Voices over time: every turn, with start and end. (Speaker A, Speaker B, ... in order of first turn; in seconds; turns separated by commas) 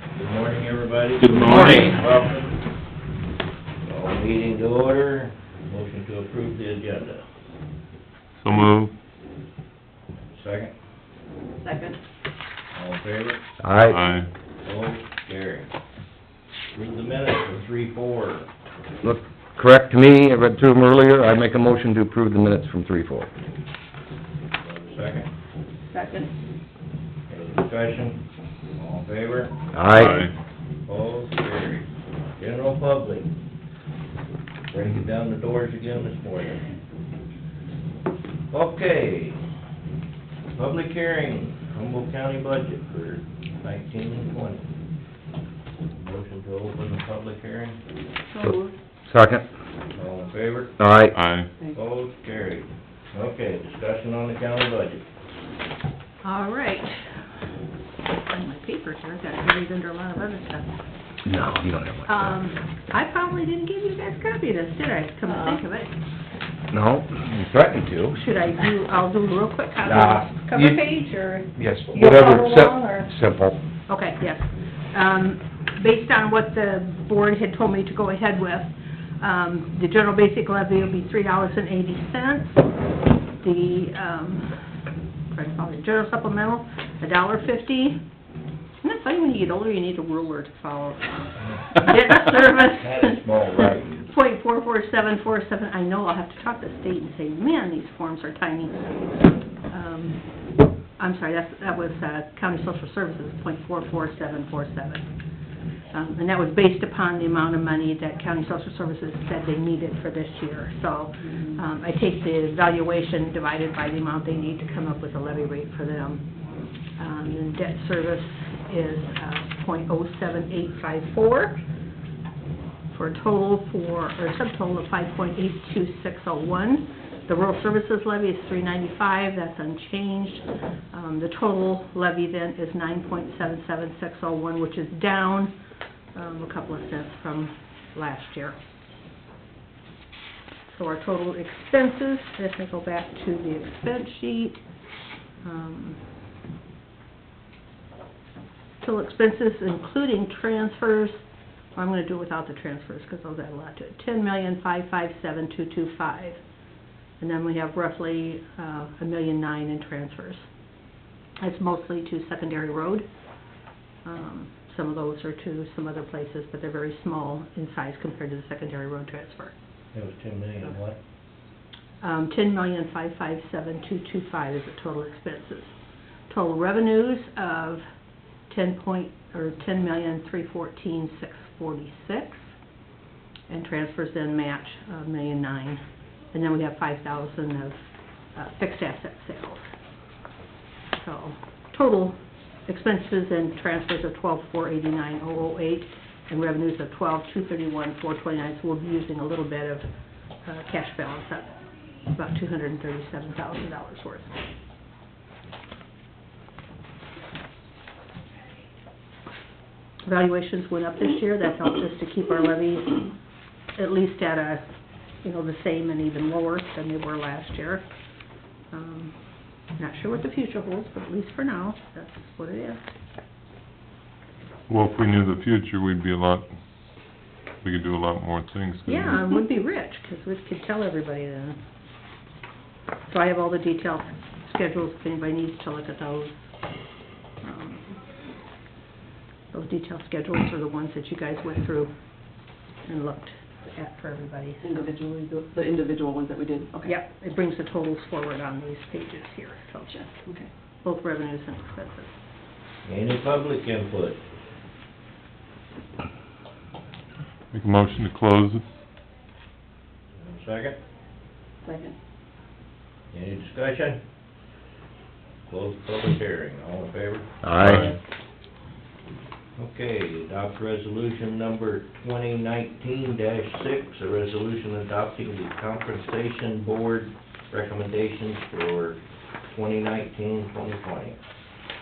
Speaker A: 0.1-2.5, Speaker B: 1.2-1.9, Speaker A: 3.9-7.2, Speaker B: 8.4-8.9, Speaker A: 10.3-10.7, Speaker C: 11.6-12.0, Speaker A: 12.7-13.4, Speaker D: 13.6-14.0, Speaker B: 13.8-14.3, Speaker A: 14.6-15.7, Speaker A: 16.7-18.5, Speaker D: 19.0-23.3, Speaker A: 24.6-25.3, Speaker C: 25.9-26.3, Speaker A: 27.3-28.2, Speaker A: 28.8-29.5, Speaker D: 29.7-30.3, Speaker B: 29.9-30.3, Speaker A: 30.9-31.9, Speaker A: 32.4-33.3, Speaker A: 34.7-36.6, Speaker A: 38.5-39.4, Speaker A: 40.5-44.6, Speaker A: 46.0-47.8, Speaker C: 48.3-48.7, Speaker D: 48.4-49.5, Speaker A: 50.0-50.8, Speaker D: 50.8-51.2, Speaker B: 51.1-51.5, Speaker A: 51.7-55.0, Speaker E: 56.2-57.1, Speaker E: 58.2-60.7, Speaker D: 61.2-62.4, Speaker E: 62.1-65.9, Speaker C: 65.3-65.6, Speaker D: 66.7-68.2, Speaker E: 68.1-73.1, Speaker D: 69.8-70.8, Speaker D: 71.5-73.6, Speaker E: 73.9-82.6, Speaker E: 83.4-84.6, Speaker E: 85.3-88.0, Speaker E: 88.8-91.2, Speaker E: 91.7-93.2, Speaker A: 92.8-94.0, Speaker E: 94.0-98.8, Speaker E: 99.7-100.2, Speaker E: 101.0-105.1, Speaker E: 105.9-116.3, Speaker C: 111.2-111.6, Speaker E: 117.0-121.6, Speaker E: 122.9-135.6, Speaker E: 136.1-138.6, Speaker E: 140.7-144.6, Speaker E: 145.4-146.0, Speaker E: 148.8-151.2, Speaker E: 151.8-156.4, Speaker E: 157.2-160.5, Speaker E: 161.4-163.1, Speaker E: 164.1-169.5, Speaker A: 169.9-171.0, Speaker E: 172.0-175.7, Speaker E: 176.3-177.8, Speaker E: 178.5-182.5, Speaker E: 183.5-185.8, Speaker E: 186.3-187.8, Speaker E: 188.4-189.7, Speaker E: 191.0-199.9, Speaker E: 200.5-204.3, Speaker E: 210.1-213.1, Speaker E: 213.8-214.6, Speaker E: 215.2-217.9, Speaker E: 218.7-219.2, Speaker E: 219.8-222.9, Speaker B: 224.7-226.5, Speaker B: 227.6-229.2, Speaker E: 228.8-231.6, Speaker E: 233.1-236.5, Speaker E: 237.4-238.0, Speaker E: 239.5-241.9, Speaker E: 242.8-244.9, Speaker C: 244.6-246.9, Speaker E: 246.8-250.0, Speaker C: 249.9-250.5, Speaker E: 250.8-252.1, Speaker A: 252.8-254.2, Speaker B: 257.5-258.6, Speaker A: 260.2-260.8, Speaker C: 261.6-261.9, Speaker A: 263.1-264.0, Speaker A: 265.5-267.3, Speaker D: 267.4-267.9, Speaker B: 267.6-267.9, Speaker A: 269.6-281.2